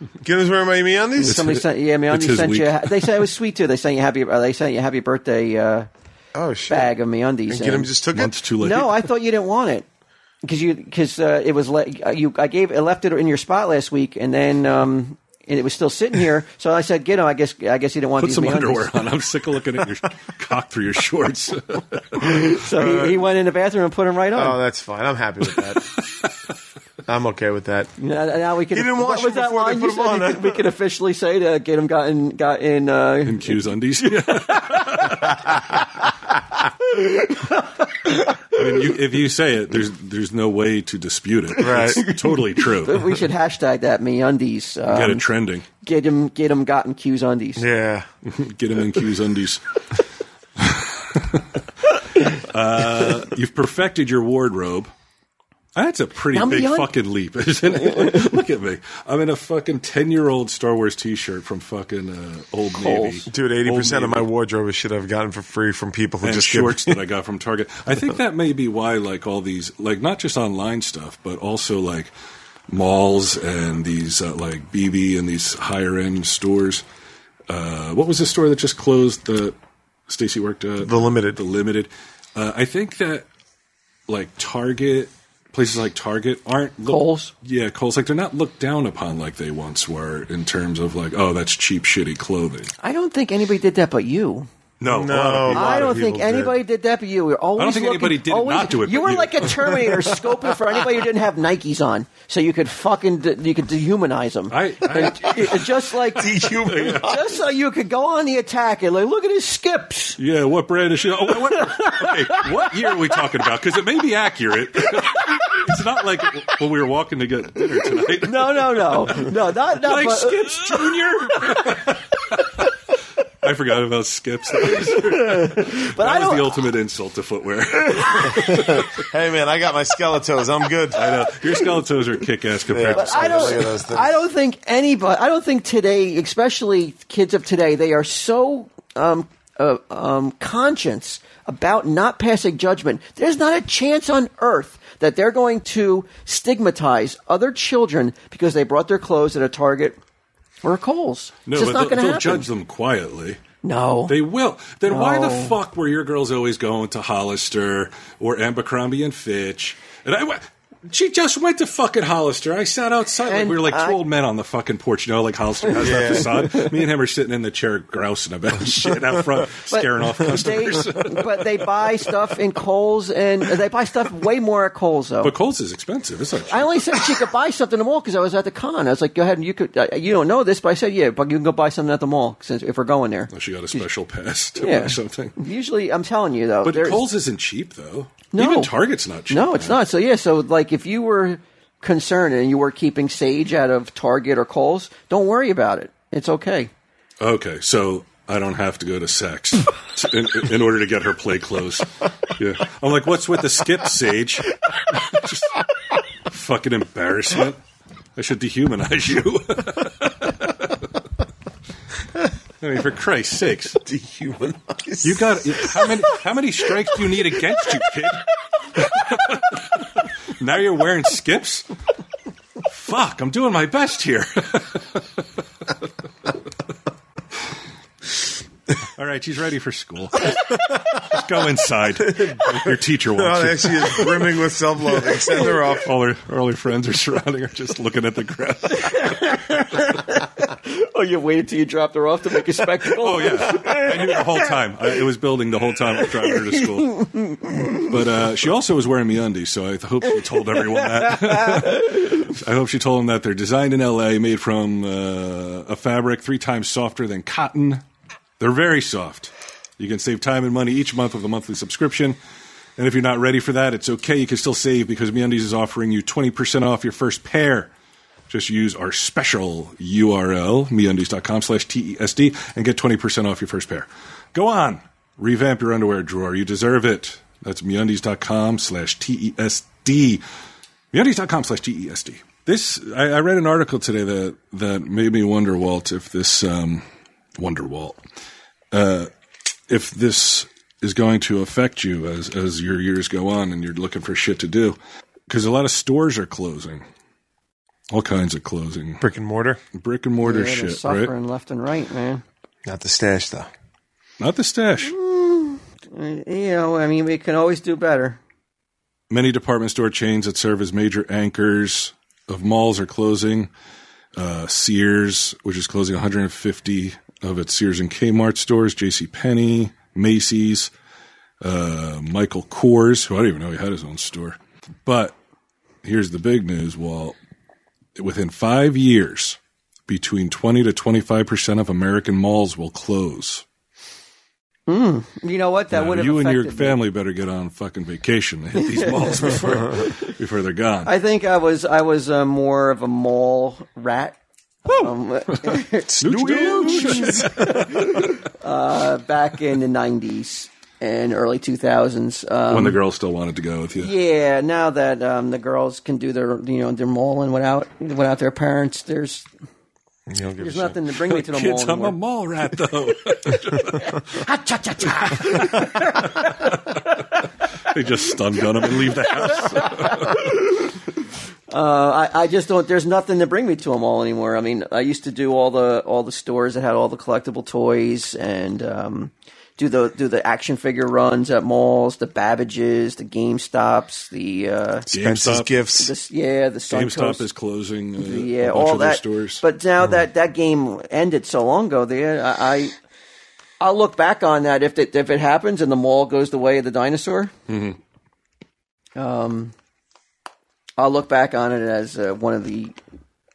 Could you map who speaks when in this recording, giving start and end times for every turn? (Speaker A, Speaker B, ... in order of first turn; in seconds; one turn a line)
Speaker A: 0.2-1.4
Speaker B: 1.2-5.9
Speaker C: 1.2-3.2
Speaker A: 6.3-6.9
Speaker B: 6.7-7.9
Speaker A: 7.5-8.4
Speaker C: 8.1-9.1
Speaker B: 8.6-9.9
Speaker B: 10.4-18.9
Speaker C: 18.2-22.3
Speaker B: 22.2-24.6
Speaker A: 22.8-23.2
Speaker A: 24.3-25.9
Speaker A: 27.1-27.9
Speaker B: 28.0-36.1
Speaker A: 28.7-30.6
Speaker C: 33.2-35.6
Speaker B: 36.8-38.6
Speaker C: 38.5-43.2
Speaker A: 41.6-42.0
Speaker B: 41.8-45.3
Speaker C: 44.9-45.7
Speaker B: 45.8-47.6
Speaker A: 47.6-48.1
Speaker C: 48.3-49.9
Speaker C: 50.6-51.5
Speaker C: 52.3-54.9
Speaker C: 55.7-64.3
Speaker B: 56.3-56.9
Speaker B: 62.7-63.3
Speaker A: 63.3-67.0
Speaker C: 66.2-72.1
Speaker C: 72.7-76.8
Speaker C: 77.5-79.6
Speaker C: 80.1-83.3
Speaker A: 80.8-81.4
Speaker C: 84.1-92.7
Speaker B: 86.9-87.3
Speaker B: 92.8-94.5
Speaker C: 94.8-96.0
Speaker A: 94.9-96.5
Speaker B: 95.5-110.2
Speaker C: 97.6-100.5
Speaker C: 104.5-105.8
Speaker A: 106.1-107.2
Speaker C: 106.6-107.2
Speaker C: 110.2-122.5
Speaker B: 111.4-113.5
Speaker B: 118.2-122.0
Speaker C: 123.4-128.9
Speaker B: 124.6-126.6
Speaker B: 127.9-128.4
Speaker A: 128.7-131.2
Speaker C: 130.9-133.6
Speaker A: 132.7-134.2
Speaker B: 132.9-150.0
Speaker B: 150.6-152.5
Speaker C: 151.4-153.4
Speaker B: 153.6-154.2
Speaker C: 154.1-171.4
Speaker B: 154.9-155.6
Speaker B: 163.2-164.0
Speaker A: 165.8-166.3
Speaker B: 165.8-166.7
Speaker B: 169.7-175.3
Speaker C: 175.2-176.9
Speaker B: 176.5-183.9
Speaker C: 183.3-185.4
Speaker B: 184.6-187.1
Speaker C: 186.6-189.8
Speaker B: 188.3-188.7
Speaker B: 189.3-196.7
Speaker C: 197.2-205.6
Speaker C: 206.3-207.6
Speaker C: 208.2-210.9
Speaker C: 212.6-213.8
Speaker A: 213.8-215.9
Speaker C: 215.0-218.3
Speaker C: 218.8-221.7
Speaker C: 222.7-225.0
Speaker C: 228.9-234.3
Speaker A: 232.1-235.9
Speaker C: 235.1-239.6
Speaker B: 238.8-244.5
Speaker C: 243.0-247.1
Speaker B: 245.9-247.9
Speaker C: 247.7-257.8
Speaker B: 250.5-251.8
Speaker C: 258.4-262.2
Speaker C: 262.8-267.7
Speaker C: 268.3-280.2
Speaker C: 280.9-286.8
Speaker C: 287.4-288.0
Speaker C: 288.7-289.1
Speaker C: 289.7-294.8
Speaker C: 295.3-296.8
Speaker C: 297.9-299.1
Speaker A: 299.0-299.6
Speaker C: 299.7-301.1
Speaker B: 300.2-302.2
Speaker A: 302.6-303.5
Speaker C: 304.2-304.9
Speaker B: 304.8-308.2
Speaker C: 309.1-313.5
Speaker C: 314.1-320.7
Speaker C: 321.4-325.2
Speaker C: 325.8-327.2
Speaker C: 327.9-333.4
Speaker B: 334.7-336.8
Speaker C: 335.7-340.9
Speaker B: 338.6-340.1
Speaker B: 340.8-352.8
Speaker C: 345.4-348.0
Speaker A: 346.0-347.7
Speaker C: 352.5-353.9
Speaker B: 353.8-359.3
Speaker A: 360.1-360.8
Speaker B: 360.4-361.9
Speaker C: 361.1-364.0
Speaker B: 363.3-367.1
Speaker C: 365.1-366.7
Speaker C: 367.6-370.2
Speaker B: 368.6-370.8
Speaker B: 371.5-384.9
Speaker A: 384.9-385.9
Speaker C: 384.9-385.6
Speaker B: 385.7-387.3
Speaker C: 386.7-389.4
Speaker B: 388.0-392.8
Speaker B: 393.6-397.3
Speaker C: 397.5-397.8
Speaker B: 398.9-399.5
Speaker B: 400.8-402.8